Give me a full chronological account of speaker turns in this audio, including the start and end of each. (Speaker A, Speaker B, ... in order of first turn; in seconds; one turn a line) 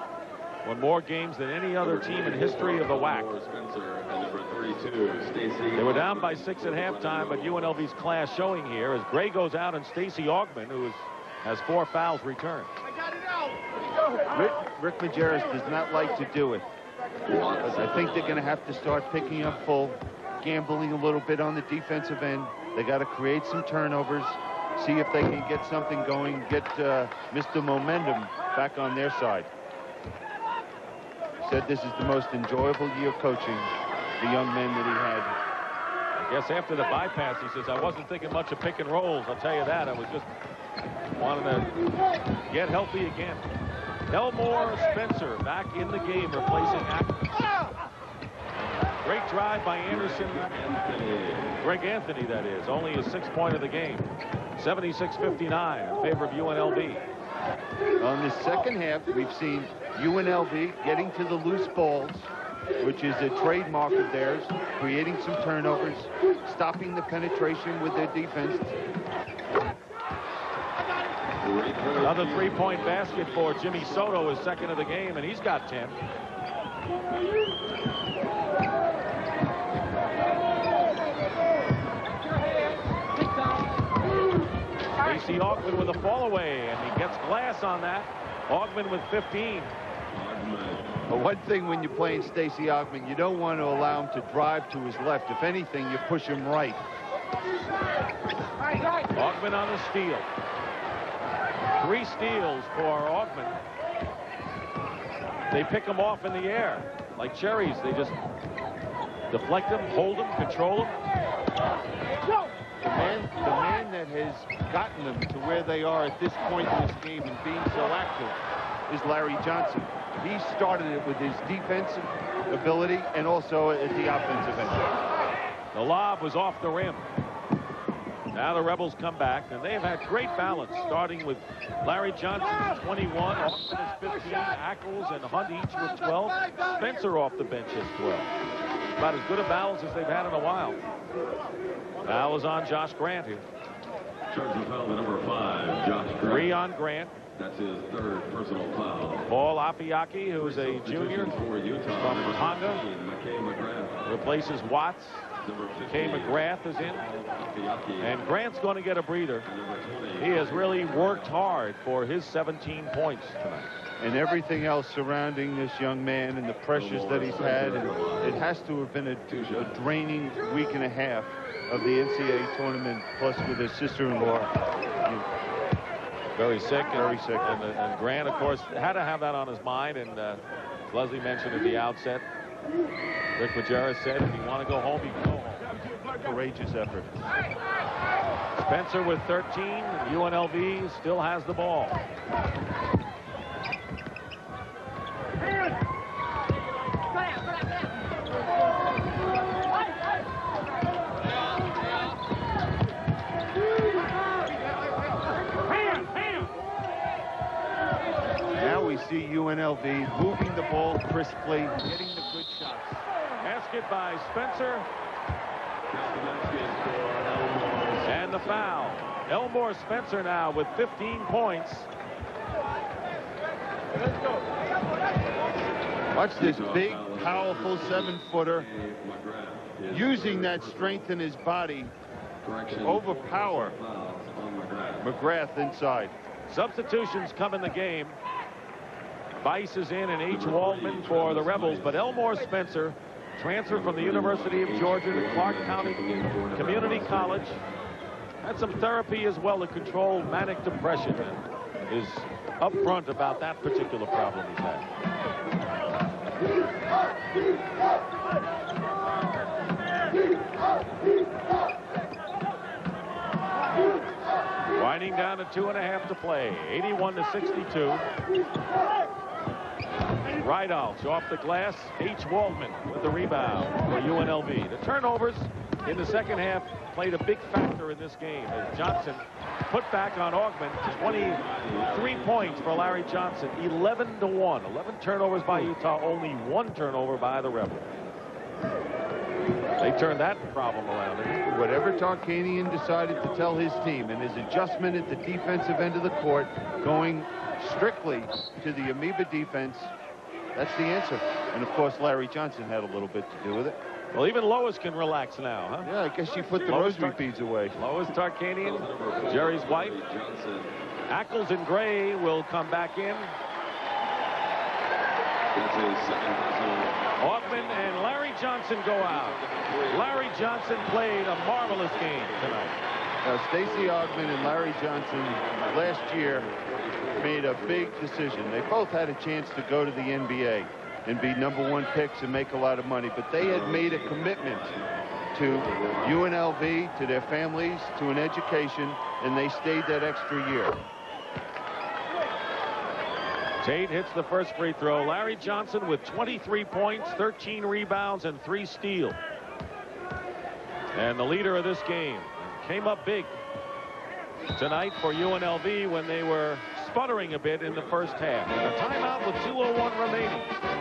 Speaker A: 0.6-3.3
Speaker B: 1.8-7.9
Speaker A: 5.8-12.7
Speaker C: 14.3-16.7
Speaker B: 17.2-18.6
Speaker C: 17.6-29.5
Speaker C: 31.4-35.3
Speaker A: 36.1-40.3
Speaker A: 41.1-41.7
Speaker A: 42.5-43.4
Speaker A: 44.1-47.4
Speaker A: 49.0-50.5
Speaker B: 49.9-51.6
Speaker A: 51.6-57.0
Speaker C: 58.0-68.8
Speaker B: 71.4-74.4
Speaker A: 72.0-76.0
Speaker A: 85.0-89.7
Speaker B: 90.1-91.0
Speaker C: 91.1-96.8
Speaker A: 99.1-100.3
Speaker A: 101.8-103.5
Speaker A: 105.5-108.2
Speaker A: 109.3-110.9
Speaker C: 112.8-124.9
Speaker A: 125.7-127.0
Speaker A: 128.3-138.3
Speaker A: 139.0-140.8
Speaker A: 142.0-143.4
Speaker B: 144.3-146.5
Speaker A: 146.2-147.2
Speaker B: 147.4-149.3
Speaker A: 149.3-151.3
Speaker B: 150.4-154.0
Speaker A: 152.0-152.8
Speaker A: 154.0-155.3
Speaker B: 155.4-158.2
Speaker A: 155.9-157.1
Speaker A: 158.0-159.5
Speaker B: 159.5-161.6
Speaker A: 160.2-163.7
Speaker C: 164.0-175.2
Speaker B: 166.7-168.4
Speaker B: 169.3-169.8
Speaker A: 176.4-182.2
Speaker C: 176.9-177.5
Speaker A: 183.4-185.6
Speaker C: 186.2-187.1
Speaker A: 188.5-192.0
Speaker C: 208.5-213.0
Speaker A: 213.4-214.9
Speaker B: 215.9-218.8
Speaker A: 218.0-221.9
Speaker C: 226.1-228.7
Speaker B: 226.3-231.1
Speaker C: 229.9-231.9
Speaker B: 232.4-235.1
Speaker C: 232.7-233.8
Speaker C: 235.0-236.2
Speaker A: 236.5-238.2
Speaker A: 239.4-247.6
Speaker B: 240.3-242.1
Speaker B: 243.7-247.6
Speaker A: 248.4-254.9
Speaker A: 264.7-268.1
Speaker A: 270.4-287.9
Speaker B: 280.8-283.2
Speaker A: 289.8-291.4
Speaker C: 291.4-299.9
Speaker C: 300.5-303.8
Speaker A: 304.1-305.9
Speaker C: 305.8-307.8
Speaker A: 306.6-310.0
Speaker B: 308.6-310.7
Speaker A: 311.1-313.3
Speaker B: 315.5-318.0
Speaker A: 317.2-322.8
Speaker B: 319.0-321.0
Speaker B: 322.1-322.6
Speaker C: 323.2-326.5
Speaker B: 324.1-328.4
Speaker C: 327.1-334.8
Speaker B: 333.4-334.8
Speaker C: 335.3-340.8
Speaker B: 335.6-336.1
Speaker A: 343.6-349.2
Speaker A: 350.9-353.3
Speaker A: 354.5-360.5